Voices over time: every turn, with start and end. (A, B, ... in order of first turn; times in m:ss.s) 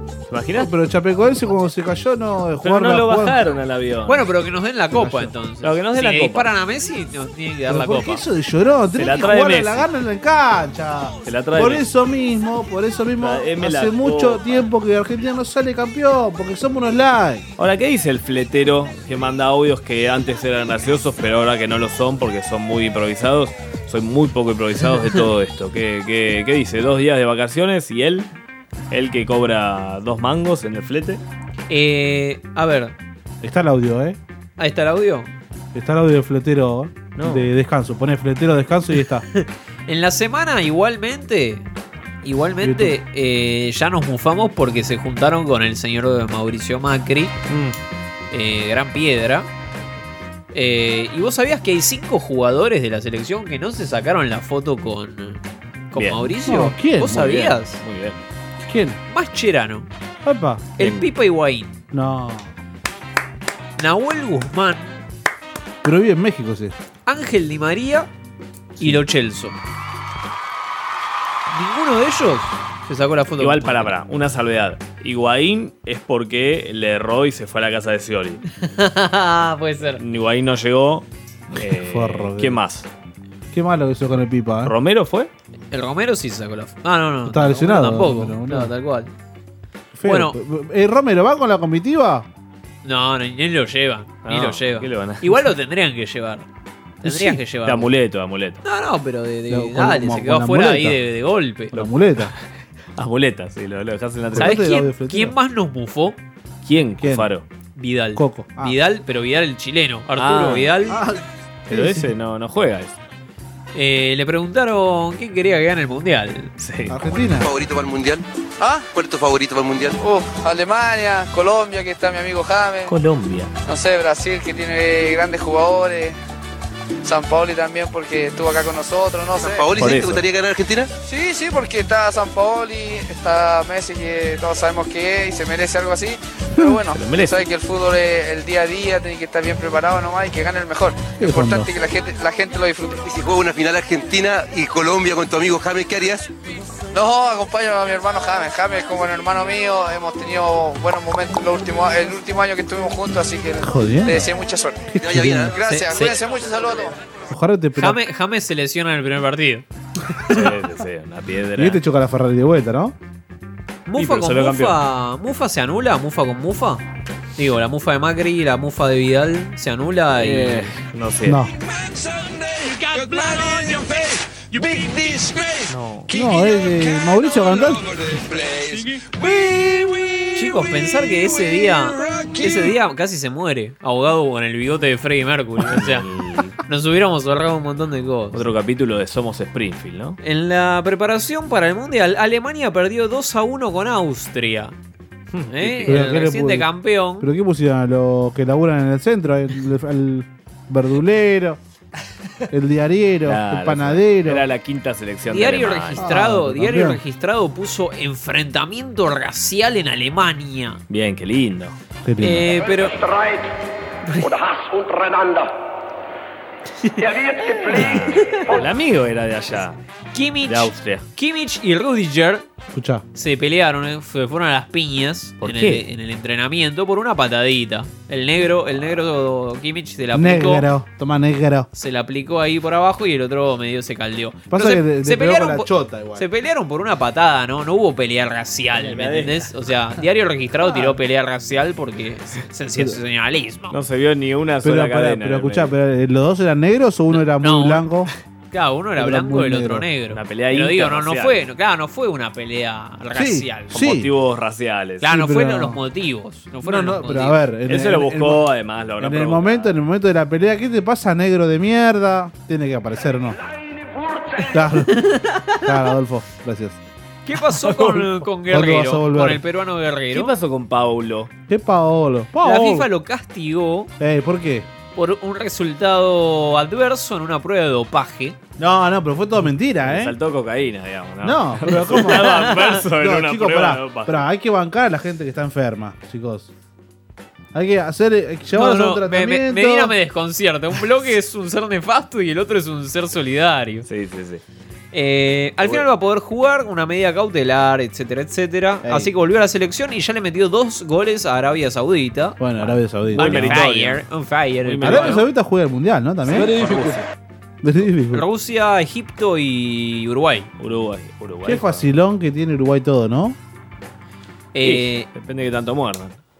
0:00.3-0:00.7 A
0:00.6-0:03.4 B
0:02.6-0:04.3 A
0:04.0-0:08.2 C
0:05.0-0:05.3 B
0:05.6-0:06.5 A
0:07.7-0:17.5 B
0:09.0-0:09.9 A
0:11.2-0:11.9 A
0:13.2-0:14.6 A
0:17.6-0:28.3 A
0:28.9-0:31.2 A
0:31.7-0:32.9 C
0:33.4-0:34.2 B
0:34.6-0:35.3 C
0:35.7-0:39.2 B
0:37.2-0:37.5 A
0:39.3-0:41.7 C
0:42.2-0:47.4 C
0:42.6-0:42.9 B
0:47.5-0:47.7 A
0:48.3-0:49.5 C
0:50.5-0:55.4 C
0:55.9-0:57.8 C
0:55.9-0:56.3 A
0:56.4-0:57.2 B
0:57.0-0:58.2 A
0:58.6-0:59.0 B
0:59.1-0:59.9 C
1:00.2-1:00.6 B
1:00.8-1:01.8 C
1:00.8-1:01.1 A
1:01.9-1:02.5 B
1:03.8-1:05.0 C
1:05.8-1:06.8 B
1:07.0-1:08.1 C
1:08.8-1:09.6 C
1:11.5-1:13.9 C
1:13.4-1:18.4 A
1:18.6-1:20.0 C
1:20.0-1:22.9 A
1:21.6-1:22.6 B
1:23.5-1:24.7 B
1:24.6-1:25.3 A
1:25.7-1:29.1 C
1:27.2-1:28.7 B
1:29.9-1:32.3 B
1:30.0-1:30.4 C
1:32.8-1:36.4 C
1:34.2-1:35.4 A
1:37.0-1:37.9 C
1:37.1-1:37.3 B
1:37.6-1:38.6 A
1:38.6-1:41.8 C
1:39.5-1:41.0 B
1:41.7-1:42.3 B
1:43.0-1:44.7 A
1:44.3-1:45.3 B
1:44.4-1:46.2 C
1:46.6-1:47.4 A
1:47.0-1:47.3 B
1:47.8-1:51.0 C
1:48.1-1:48.8 B
1:50.1-1:50.8 A
1:50.9-1:52.1 B
1:51.7-1:53.0 A
1:53.7-1:56.5 C
1:56.6-1:57.0 A
1:56.9-1:57.5 B
1:57.4-1:58.2 D
1:58.8-1:59.9 D
2:00.0-2:02.9 E
2:02.8-2:03.5 A
2:03.6-2:06.2 E
2:07.0-2:09.7 E
2:09.4-2:10.9 D
2:09.8-2:10.2 A
2:11.0-2:23.1 E
2:16.9-2:17.4 A
2:21.2-2:21.7 B
2:23.1-2:26.2 D
2:26.9-2:34.9 E
2:33.6-2:34.2 B
2:35.0-2:35.5 B
2:35.0-2:35.5 D
2:35.5-2:37.0 E
2:35.6-2:36.2 C
2:37.3-2:38.0 B
2:37.8-2:39.6 C
2:40.3-2:41.8 A
2:41.6-2:43.0 B
2:43.9-2:46.8 C
2:44.0-2:44.8 A
2:47.4-2:50.7 C
2:50.2-2:51.4 A
2:51.2-2:51.5 B
2:55.7-2:56.1 A
2:56.1-2:57.9 B
3:00.3-3:06.0 C
3:05.6-3:06.6 A
3:06.7-3:08.4 C
3:08.3-3:10.2 A
3:10.2-3:14.7 C
3:15.3-3:16.1 A
3:15.5-3:17.3 C
3:15.8-3:16.7 B
3:17.2-3:21.6 B
3:22.5-3:24.4 B
3:23.2-3:26.1 A
3:25.3-3:30.8 C
3:26.0-3:27.0 B
3:30.9-3:31.8 A
3:32.0-3:32.5 B
3:32.2-3:33.0 C
3:34.0-3:34.3 C
3:37.7-3:39.8 A
3:40.1-3:42.4 C
3:40.4-3:41.0 A
3:42.7-3:43.0 B
3:43.1-3:50.7 C
3:45.4-3:45.8 A
3:50.1-3:51.7 B
3:51.7-4:03.7 C
3:54.5-3:56.2 B
3:58.7-3:59.5 A
4:00.6-4:01.0 B
4:03.7-4:05.7 A
4:04.6-4:08.1 B
4:07.1-4:07.9 C
4:08.5-4:13.7 C
4:09.0-4:09.9 B
4:10.1-4:11.4 A
4:13.1-4:14.1 B
4:13.7-4:15.2 A
4:15.0-4:17.4 C
4:15.0-4:15.8 B
4:16.6-4:18.4 B
4:17.7-4:19.8 A
4:19.0-4:23.4 B
4:24.5-4:25.0 B
4:25.6-4:26.8 B
4:27.2-4:30.3 C
4:27.5-4:28.2 A
4:28.5-4:29.4 B
4:30.1-4:31.3 A
4:31.5-4:32.9 B
4:32.4-4:33.9 C
4:34.0-4:34.7 B
4:34.9-4:38.4 C
4:38.6-4:40.1 B
4:39.8-4:44.3 A
4:41.2-4:46.5 B
4:42.1-4:42.5 C
4:47.5-4:49.9 B
4:48.5-4:53.9 C
4:53.9-4:54.4 A
4:54.9-5:02.4 C
4:58.8-4:59.1 B
5:02.4-5:03.6 B
5:02.6-5:04.0 A
5:03.1-5:05.2 C
5:04.6-5:05.2 A
5:04.8-5:06.6 B
5:06.3-5:07.0 A
5:07.6-5:08.2 B
5:08.1-5:10.5 C
5:10.6-5:11.8 A
5:11.4-5:13.4 B
5:14.5-5:15.1 C
5:14.6-5:16.2 A